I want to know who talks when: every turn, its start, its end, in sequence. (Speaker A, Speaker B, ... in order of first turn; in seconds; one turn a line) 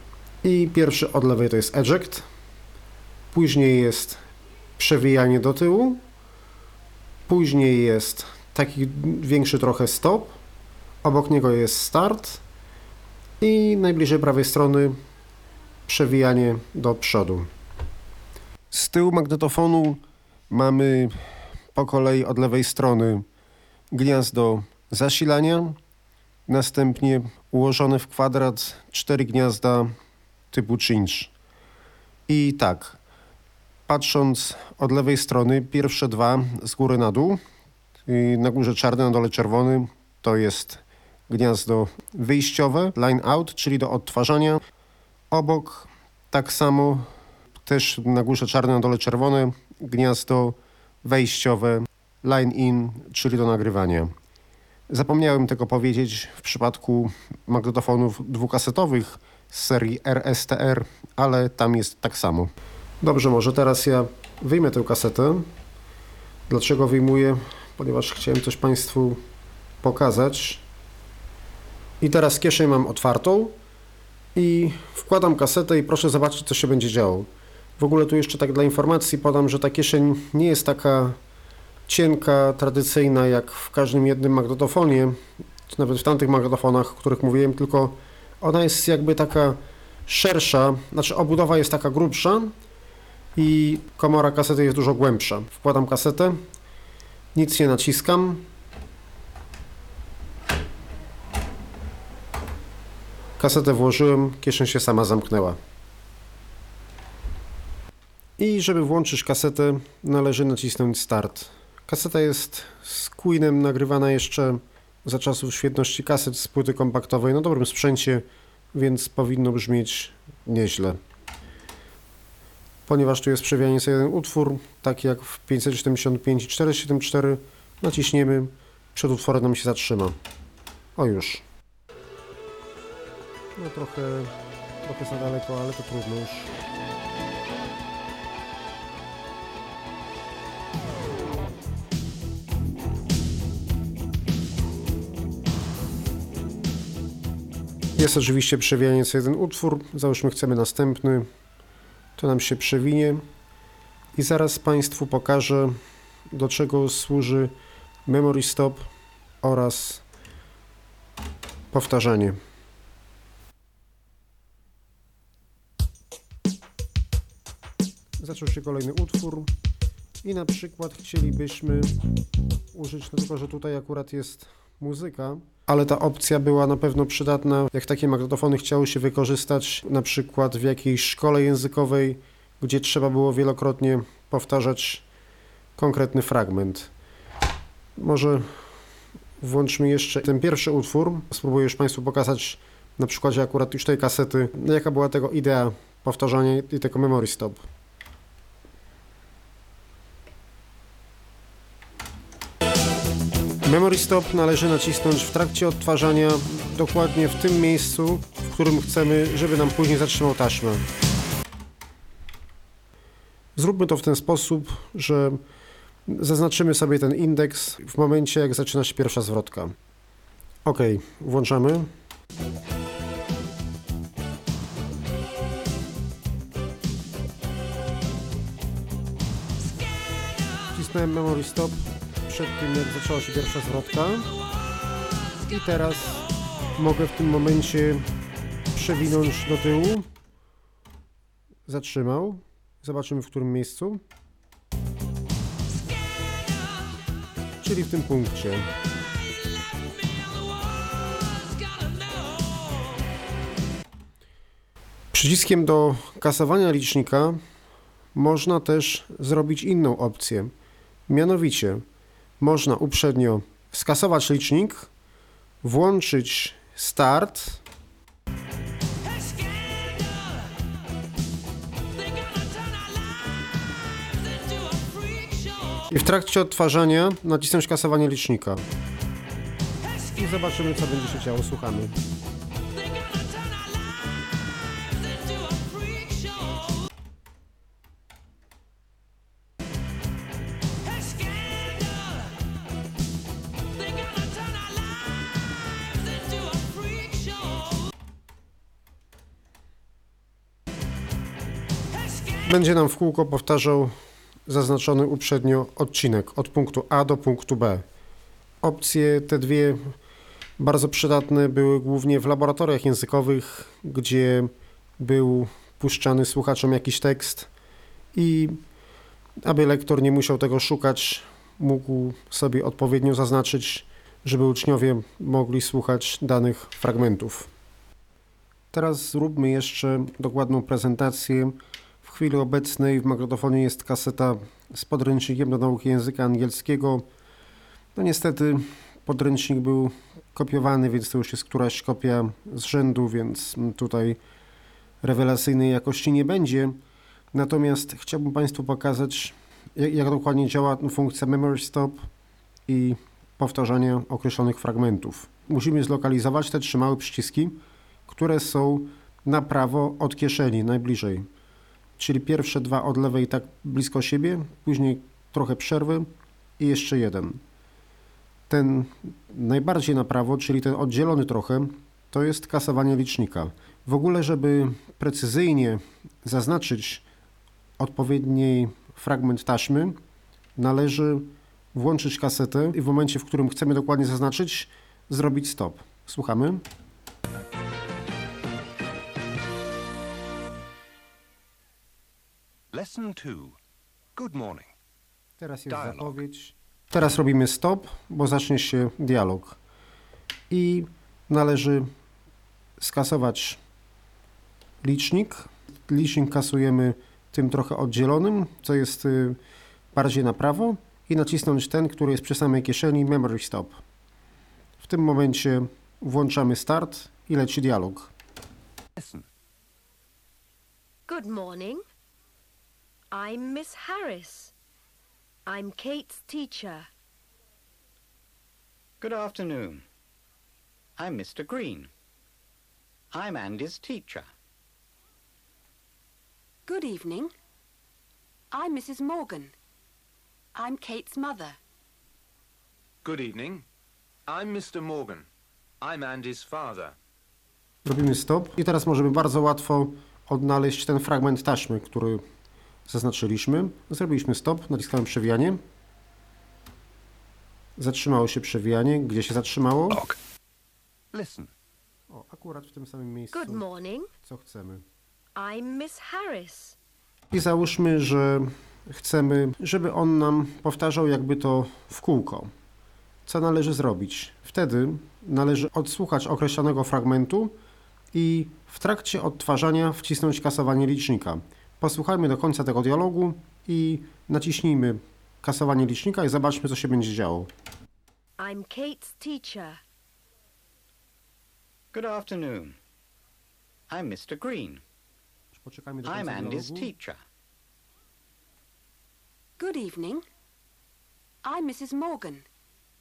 Speaker A: 0.4-2.2
Speaker A: 3.3-4.2
Speaker A: 4.8-6.0
Speaker A: 7.3-10.4
Speaker A: 11.0-12.4
Speaker A: 13.4-15.0
Speaker A: 15.9-17.5
Speaker A: 18.7-23.2
Speaker A: 23.9-25.8
Speaker A: 26.5-29.9
Speaker A: 30.5-31.3
Speaker A: 32.3-33.0
Speaker A: 33.9-37.4
Speaker A: 38.0-44.6
Speaker A: 45.3-47.1
Speaker A: 47.6-54.1
Speaker A: 54.9-65.5
Speaker A: 66.5-69.2
Speaker A: 69.8-70.6
Speaker A: 72.0-73.5
Speaker A: 74.3-81.2
Speaker A: 81.9-92.5
Speaker A: 93.3-96.4
Speaker A: 97.3-98.4
Speaker A: 103.4-105.6
Speaker A: 108.4-121.0
Speaker A: 122.9-130.2
Speaker A: 130.9-131.4
Speaker A: 133.6-136.5
Speaker A: 147.9-151.3
Speaker A: 152.2-153.2
Speaker A: 154.1-155.8
Speaker A: 156.3-157.5
Speaker A: 158.1-158.9
Speaker A: 159.4-160.0
Speaker A: 161.7-162.4
Speaker A: 168.2-169.5
Speaker A: 170.2-172.0
Speaker A: 172.7-185.0
Speaker A: 185.8-186.9
Speaker A: 188.0-188.6
Speaker A: 189.4-197.6
Speaker A: 203.6-210.8
Speaker A: 213.6-215.4
Speaker A: 216.1-219.7
Speaker A: 220.6-221.9
Speaker A: 230.7-234.3
Speaker A: 235.4-238.1
Speaker A: 238.7-240.1
Speaker A: 241.7-244.0
Speaker A: 247.6-248.7
Speaker A: 255.1-257.4
Speaker A: 258.1-260.5
Speaker A: 261.1-261.8
Speaker A: 262.4-264.9
Speaker A: 265.6-267.6
Speaker A: 275.9-278.6
Speaker A: 280.1-281.9
Speaker A: 302.4-307.8
Speaker A: 308.6-309.9
Speaker A: 310.6-317.5
Speaker A: 318.1-318.6
Speaker A: 319.4-327.5
Speaker A: 328.7-337.1
Speaker A: 337.9-344.2
Speaker A: 345.0-346.8
Speaker A: 347.3-352.1
Speaker A: 352.7-361.3
Speaker A: 362.0-367.4
Speaker A: 368.5-377.0
Speaker A: 377.8-380.0
Speaker A: 380.6-386.6
Speaker B: 392.7-393.6
Speaker B: 394.1-394.7
Speaker A: 395.4-399.6
Speaker B: 395.7-396.2
Speaker A: 400.5-401.9
Speaker A: 402.8-403.6
Speaker A: 404.8-409.4
Speaker A: 409.9-413.8
Speaker A: 414.8-418.1
Speaker B: 418.9-419.2
Speaker C: 421.1-421.8
Speaker C: 423.1-424.5
Speaker C: 425.4-426.9
Speaker D: 429.0-429.8
Speaker D: 431.0-431.9
Speaker D: 433.1-434.3
Speaker E: 436.7-437.3
Speaker E: 438.5-439.5
Speaker E: 440.5-441.6
Speaker F: 443.0-443.6
Speaker F: 444.3-445.3
Speaker F: 445.8-446.9
Speaker A: 447.8-452.2
Speaker A: 452.9-455.6
Speaker A: 457.8-460.0
Speaker B: 459.9-460.1
Speaker B: 461.1-461.5
Speaker A: 462.1-463.6
Speaker C: 463.3-464.1
Speaker A: 464.2-464.8
Speaker C: 465.4-466.8
Speaker A: 467.3-472.5
Speaker A: 473.2-477.6
Speaker A: 478.1-487.5
Speaker C: 488.4-489.8
Speaker D: 491.9-492.8
Speaker D: 493.9-494.8
Speaker A: 495.5-496.9
Speaker D: 496.0-497.2
Speaker E: 499.6-500.2
Speaker E: 501.4-502.4